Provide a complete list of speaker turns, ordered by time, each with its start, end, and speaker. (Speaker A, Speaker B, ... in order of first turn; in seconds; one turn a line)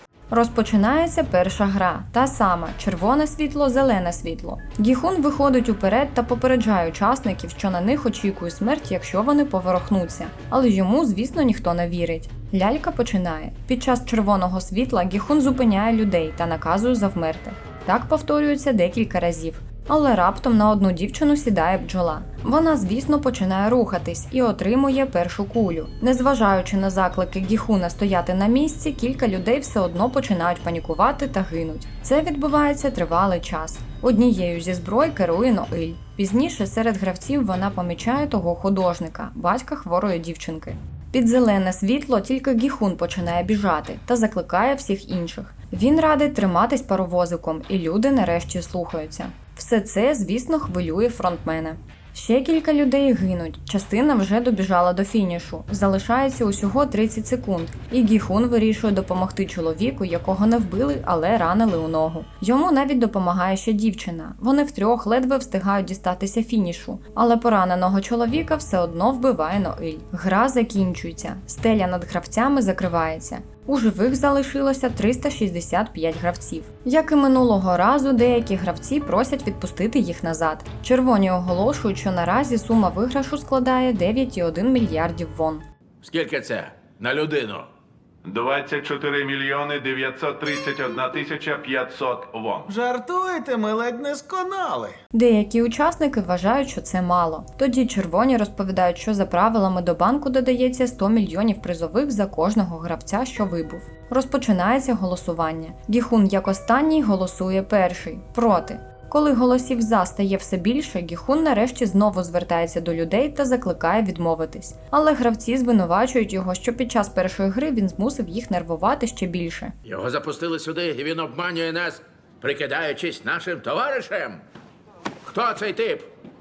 Speaker A: 0.3-85.7
Speaker B: 86.0-87.7
Speaker C: 88.2-92.6
Speaker D: 92.7-95.0
Speaker A: 95.1-119.7
Speaker B: 119.8-124.4
Speaker B: 125.3-126.1